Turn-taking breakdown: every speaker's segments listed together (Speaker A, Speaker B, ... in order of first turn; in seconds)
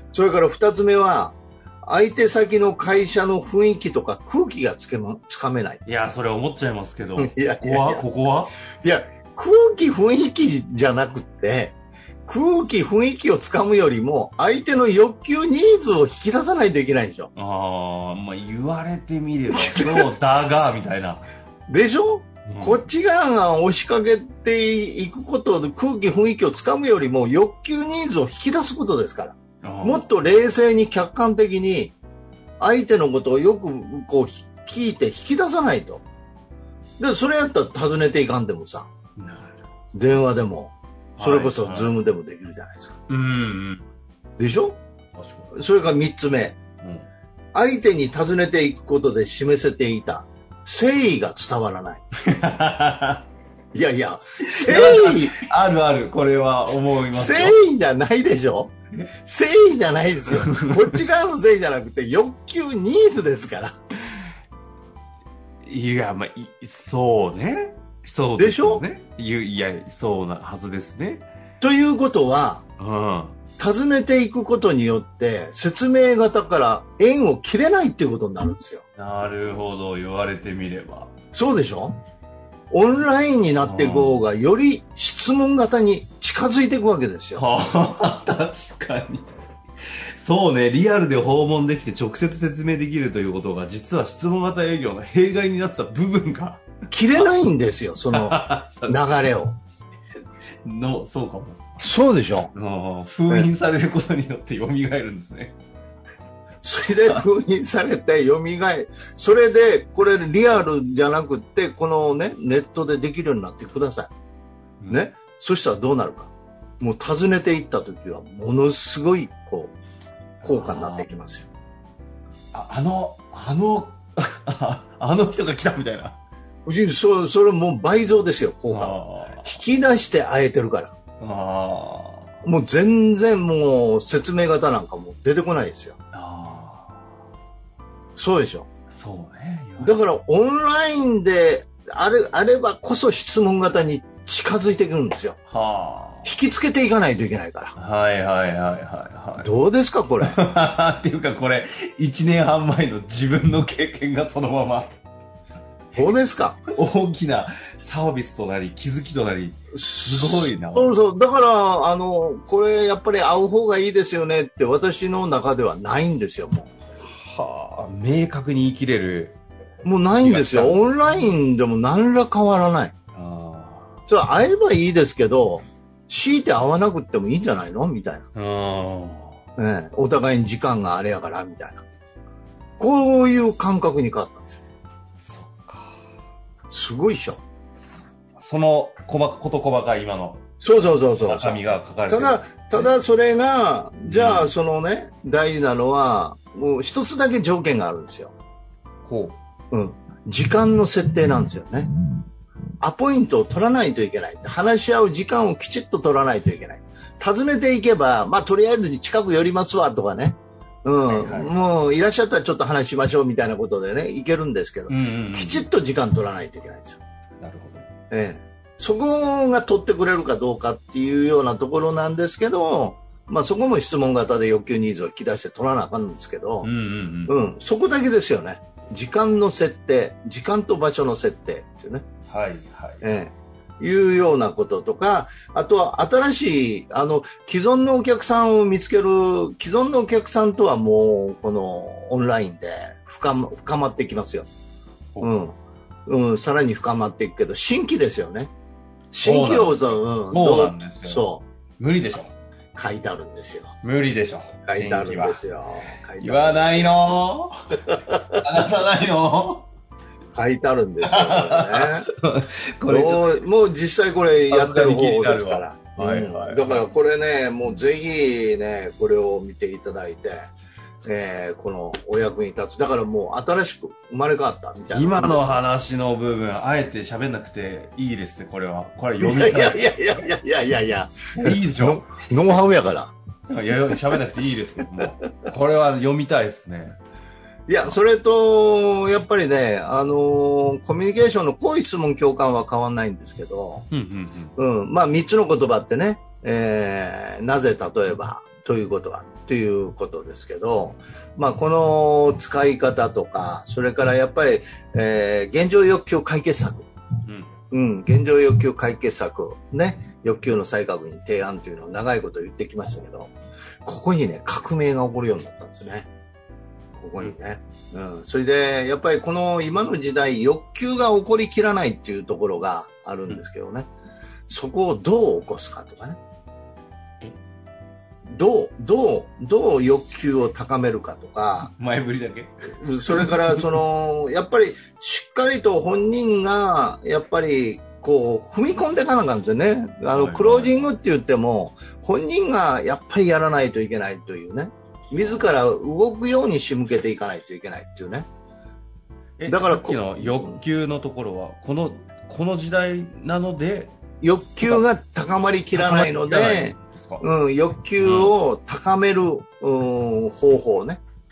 Speaker A: 0.1-5.8, 7.2-8.0, 8.8-17.3, 19.5-20.1, 21.7-31.9, 32.6-36.0, 37.0-38.9, 39.9-43.0, 44.4-44.8, 45.5-46.6, 47.5-52.0, 53.7-55.5, 57.1-63.8, 68.4-68.8, 71.6-72.6, 73.6-78.8, 81.3-82.0, 82.7-87.5, 96.9-99.6, 101.8-102.5, 106.6-114.1, 114.9-119.7, 120.4-121.5, 126.7-130.9, 132.4-135.9, 138.2-138.7, 139.8-145.4, 146.2-147.7, 149.4-150.4, 155.9-156.6, 159.7-166.7, 169.8-172.9, 174.1-178.2, 179.6-181.8, 182.8-184.6, 186.7-187.4, 190.6-198.3, 199.7-201.9, 202.8-217.0, 218.1-226.7, 227.3-232.0, 233.0-244.5, 245.2-245.5, 246.1-248.5, 249.1-251.4, 252.7-253.7, 254.7-257.0, 257.9-258.4, 260.3-262.1, 262.9-270.5, 271.0-275.6, 279.2-283.1, 287.7-293.9, 294.6-306.9, 307.7-313.3, 313.8-316.1, 316.9-323.9, 324.5-326.2, 328.3-331.7, 332.7-348.3, 349.5-350.6, 354.2-361.0
Speaker B: 5.8-8.5, 17.3-21.3, 22.5-22.8, 29.6-30.1, 39.2-39.6, 41.2-42.0, 43.1-43.8, 45.1-45.5, 46.8-47.1, 52.3-53.3, 54.5-57.6, 60.2-61.0, 65.6-71.3, 72.8-73.4, 79.0-81.1, 83.6-84.2, 87.3-89.3, 90.2-97.3, 98.1-99.2, 100.6-101.6, 102.5-105.5, 114.8-115.1, 120.4-121.1, 122.5-126.2, 128.7-129.6, 131.2-132.3, 136.1-137.0, 138.9-139.9, 145.5-146.4, 147.8-149.5, 150.2-154.9, 156.7-161.0, 167.0-169.4, 170.1-171.1, 173.1-173.9, 178.3-179.4, 185.2-185.9, 188.3-190.4, 191.2-192.9, 194.0-194.6, 199.1-199.4, 211.1-211.5, 214.9-215.7, 217.4-217.9, 226.6-227.3, 232.3-233.0, 249.2-251.2, 251.8-252.3, 253.8-259.6, 261.0-263.4, 264.5-266.9, 274.9-279.9, 281.3-282.1, 283.5-287.0, 293.9-294.5, 307.2-307.5, 331.6-333.8, 340.1-340.9, 345.2-345.4, 349.4-353.9, 355.7-357.2, 358.0-358.3